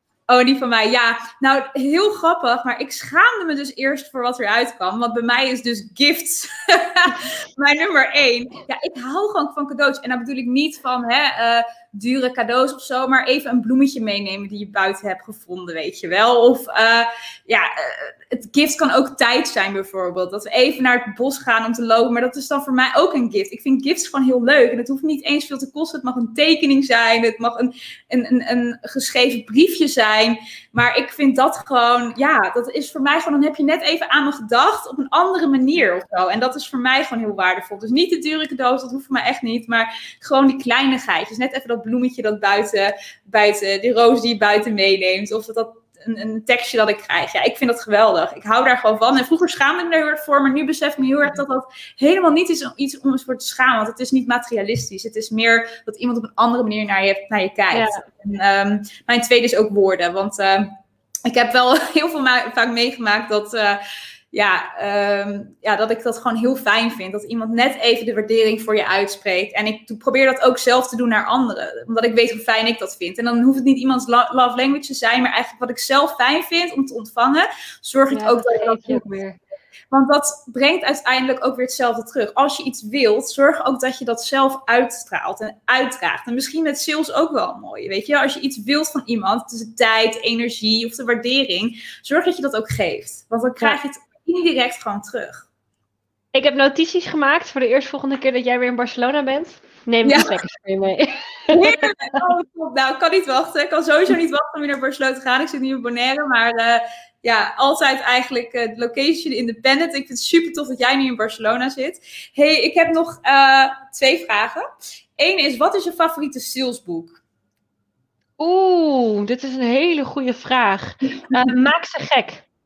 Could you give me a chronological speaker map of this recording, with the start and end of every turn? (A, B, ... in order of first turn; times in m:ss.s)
0:00.3-1:00.7 A
0:57.7-0:58.0 B
1:01.2-1:03.8 A
1:04.3-1:19.1 A
1:18.1-1:19.4 B
1:19.9-1:35.4 A
1:36.3-1:42.2 B
1:40.0-1:40.4 A
1:41.5-1:54.6 A
1:55.2-1:57.2 A
1:58.4-2:02.4 B